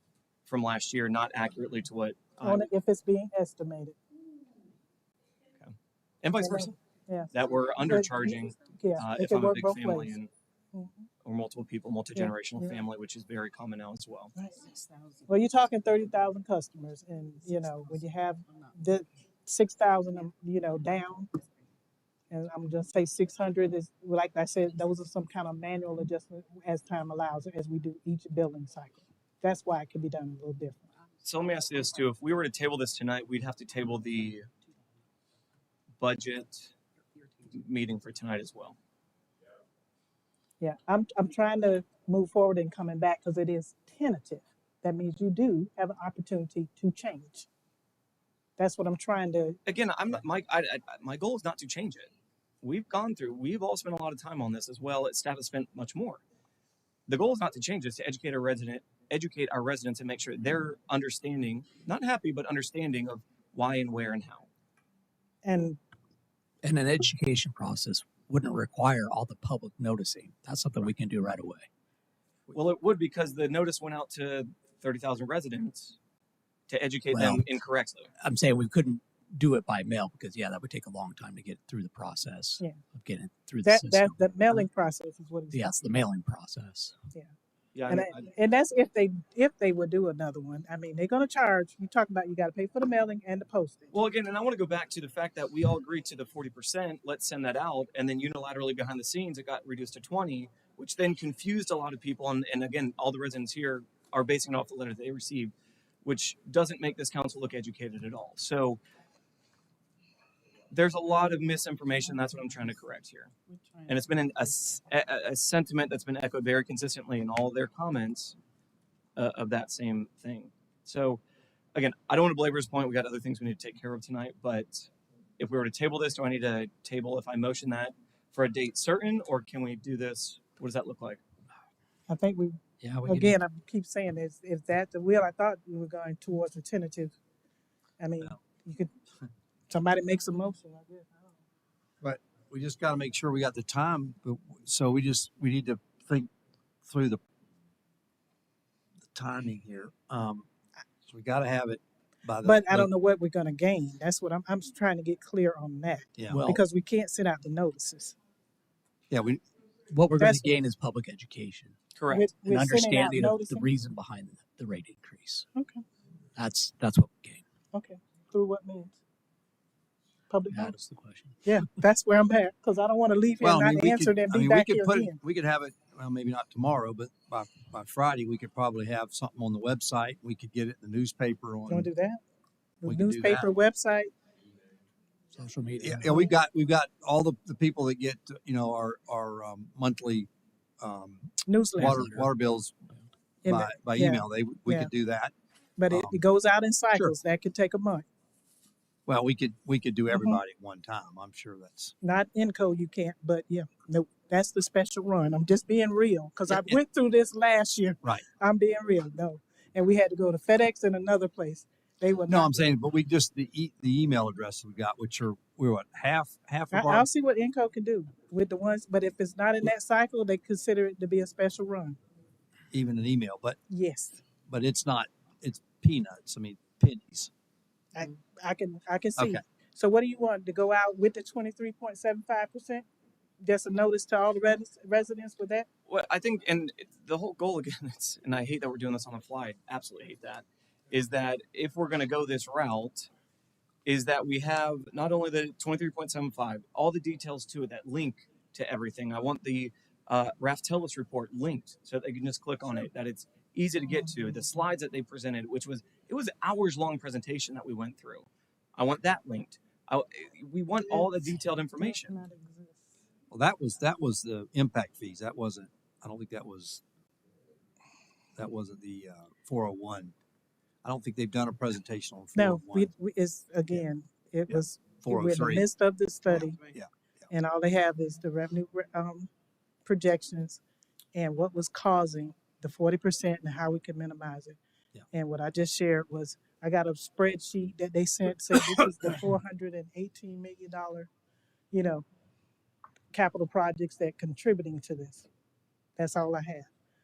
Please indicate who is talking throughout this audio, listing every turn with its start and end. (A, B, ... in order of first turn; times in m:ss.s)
0:00.5-0:02.7 A
0:02.4-0:04.0 B
0:05.6-0:06.7 A
0:06.4-0:07.3 B
0:07.3-0:10.3 A
0:07.8-0:10.2 B
0:10.7-0:11.1 B
0:11.2-0:14.4 A
0:12.2-0:12.8 B
0:14.4-0:21.3 B
0:22.3-0:30.9 B
0:31.2-0:34.5 A
0:36.0-0:36.7 A
0:37.5-0:38.8 A
0:40.6-0:47.5 B
0:48.6-0:49.6 B
0:49.7-0:52.1 A
0:52.6-0:56.2 A
0:57.1-1:04.5 A
1:05.4-1:05.8 B
1:06.6-1:11.7 C
1:12.5-1:16.0 A
1:16.7-1:18.1 A
1:17.1-1:17.4 C
1:18.2-1:24.6 C
1:23.6-1:25.7 B
1:25.5-1:27.0 C
1:27.7-1:28.3 A
1:27.9-1:34.0 B
1:33.9-1:45.5 A
1:46.0-1:48.8 A
1:50.7-1:53.3 A
1:53.5-1:54.0 B
1:53.9-1:58.4 A
1:59.2-2:01.2 A
2:01.7-2:11.2 A
2:12.1-2:17.2 B
2:12.8-2:13.3 C
2:18.0-2:18.9 B
2:19.7-2:21.4 B
2:22.0-2:26.3 D
2:26.8-2:27.2 D
2:29.1-2:30.5 D
2:31.1-2:32.9 D
2:32.4-2:38.2 B
2:36.2-2:36.4 D
2:36.3-2:36.6 C
2:39.1-2:39.4 D
2:39.9-2:41.8 C
2:40.2-2:40.6 B
2:42.0-2:42.3 A
2:42.1-2:43.7 B
2:42.5-2:45.5 C
2:45.6-2:45.8 B
2:46.4-2:47.4 C
2:47.7-2:49.0 B
2:50.3-2:50.8 B
2:50.5-2:51.4 C
2:51.4-2:55.2 B
2:53.4-3:01.9 D
3:01.7-3:02.2 B
3:02.8-3:04.1 B
3:02.8-3:03.5 D
3:05.3-3:06.2 C
3:05.8-3:10.3 D
3:10.8-3:12.8 D
3:11.5-3:12.0 B
3:11.8-3:12.3 C
3:13.4-3:14.9 B
3:13.4-3:15.3 D
3:15.8-3:18.0 B
3:15.9-3:16.2 D
3:19.1-3:21.9 D
3:20.1-3:20.4 B
3:22.0-3:32.7 B
3:26.5-3:26.8 D
3:32.3-3:37.1 D
3:36.7-3:42.0 B
3:42.7-3:43.6 D
3:43.7-3:44.2 B
3:44.5-3:47.3 D
3:47.9-3:52.8 B
3:53.4-3:55.7 B
3:55.9-4:03.1 A
4:03.8-4:22.2 A
4:20.8-4:22.9 B
4:23.3-4:26.8 D
4:28.4-4:30.1 D
4:30.8-4:32.9 D
4:32.4-4:36.7 B
4:34.5-4:35.7 D
4:36.3-4:36.9 D
4:37.3-4:39.3 B
4:39.9-4:40.6 B
4:41.1-4:44.6 B
4:45.1-4:51.1 B
4:51.7-4:52.0 B
4:53.1-4:55.3 B
4:56.0-4:56.7 B